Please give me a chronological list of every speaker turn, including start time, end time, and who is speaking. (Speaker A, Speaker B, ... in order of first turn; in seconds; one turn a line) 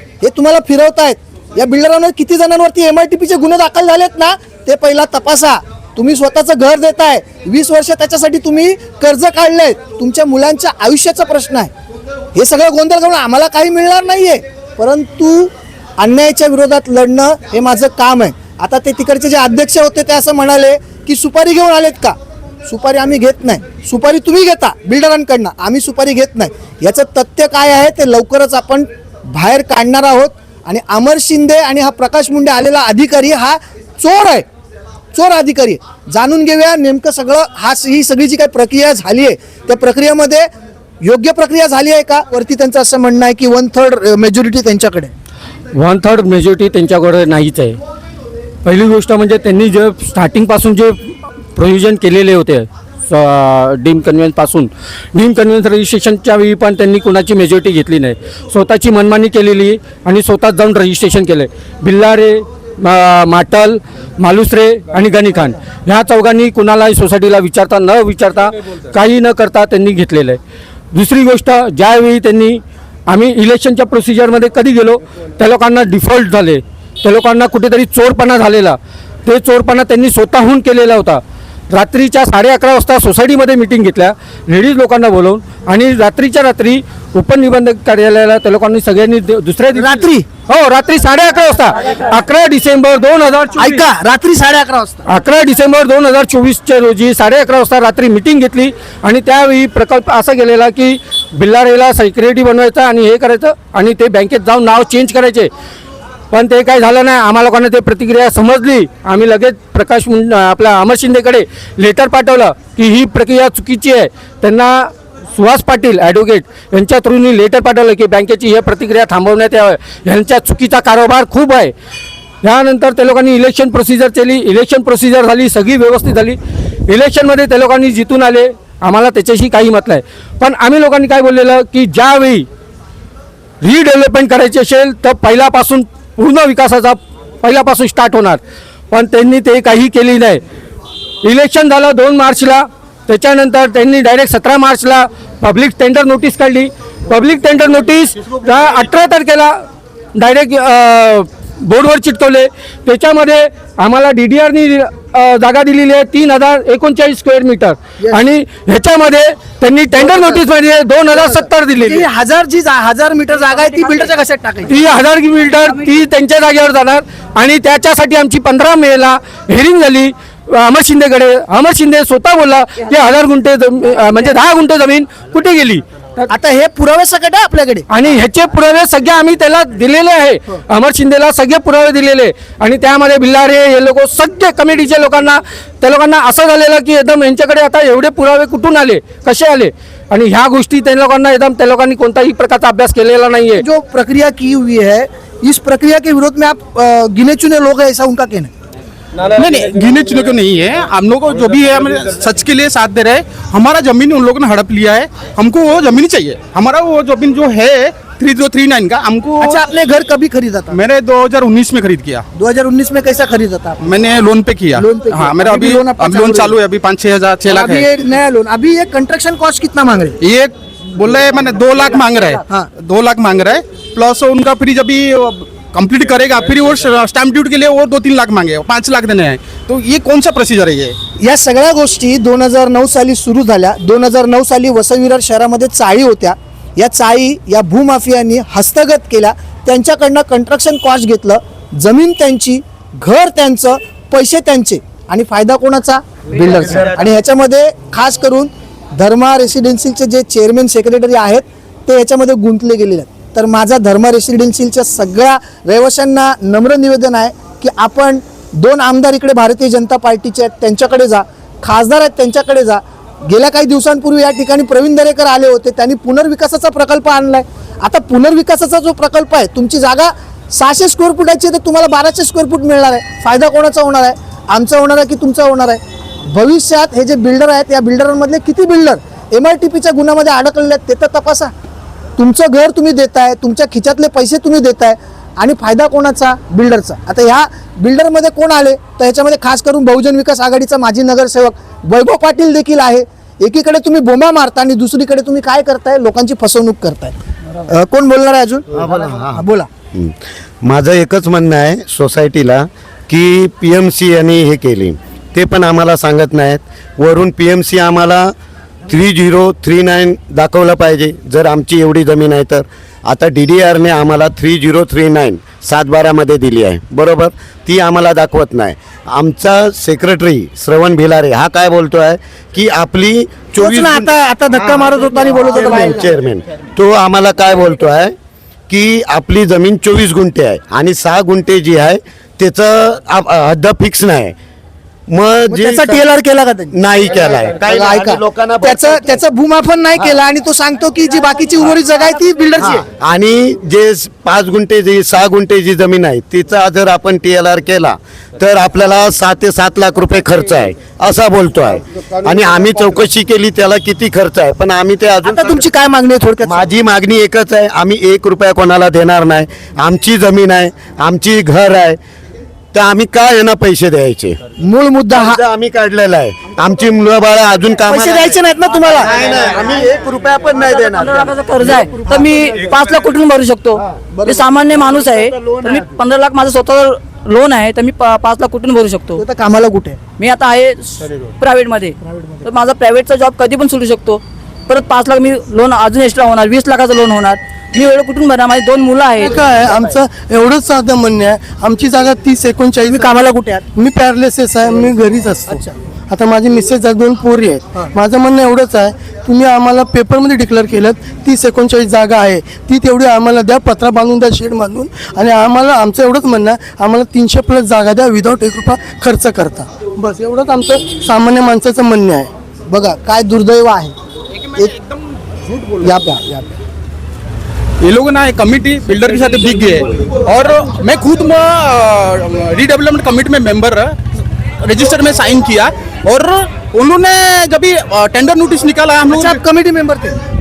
Speaker A: 0.2-11.7
Speaker A: 12.3-34.5
Speaker A: 35.1-40.5
Speaker A: 41.0-45.1
Speaker B: 45.7-47.8
Speaker B: 48.6-70.4
Speaker B: 70.9-93.8
Speaker A: 89.7-90.2
Speaker A: 93.6-95.0
Speaker B: 95.1-105.5
Speaker B: 106.3-121.7
Speaker B: 122.4-132.4
Speaker B: 133.6-140.4
Speaker B: 141.2-162.0
Speaker A: 160.0-160.4
Speaker A: 161.1-164.8
Speaker B: 164.7-176.3
Speaker A: 176.3-177.8
Speaker B: 177.9-193.6
Speaker A: 193.6-198.5
Speaker C: 199.3-209.6
Speaker A: 209.4-210.8
Speaker C: 210.7-212.2
Speaker A: 212.3-213.8
Speaker C: 213.8-217.8
Speaker A: 214.7-216.5
Speaker A: 217.4-220.2
Speaker C: 220.2-231.0
Speaker A: 231.2-281.5
Speaker A: 282.2-299.7
Speaker D: 298.7-308.3
Speaker D: 308.9-324.1
Speaker A: 323.6-326.1
Speaker D: 325.6-328.1
Speaker D: 328.7-334.3
Speaker D: 335.1-336.0
Speaker A: 335.5-336.7
Speaker D: 336.7-339.1
Speaker A: 337.6-342.8
Speaker D: 342.8-355.7
Speaker A: 355.2-356.6
Speaker D: 356.4-362.0
Speaker D: 362.7-364.4
Speaker A: 364.6-365.4
Speaker D: 365.1-368.4
Speaker A: 367.9-369.1
Speaker D: 368.9-372.2
Speaker E: 370.6-379.2
Speaker A: 372.0-372.4
Speaker A: 374.1-374.8
Speaker D: 375.1-375.8
Speaker A: 379.2-380.0
Speaker E: 380.2-389.3
Speaker A: 382.1-382.4
Speaker F: 389.2-393.2
Speaker A: 392.9-393.6
Speaker F: 393.7-412.3
Speaker A: 395.5-395.7
Speaker A: 412.7-413.9
Speaker C: 414.6-414.8
Speaker A: 415.8-416.6
Speaker C: 417.8-424.0
Speaker C: 424.6-429.4
Speaker A: 429.1-430.2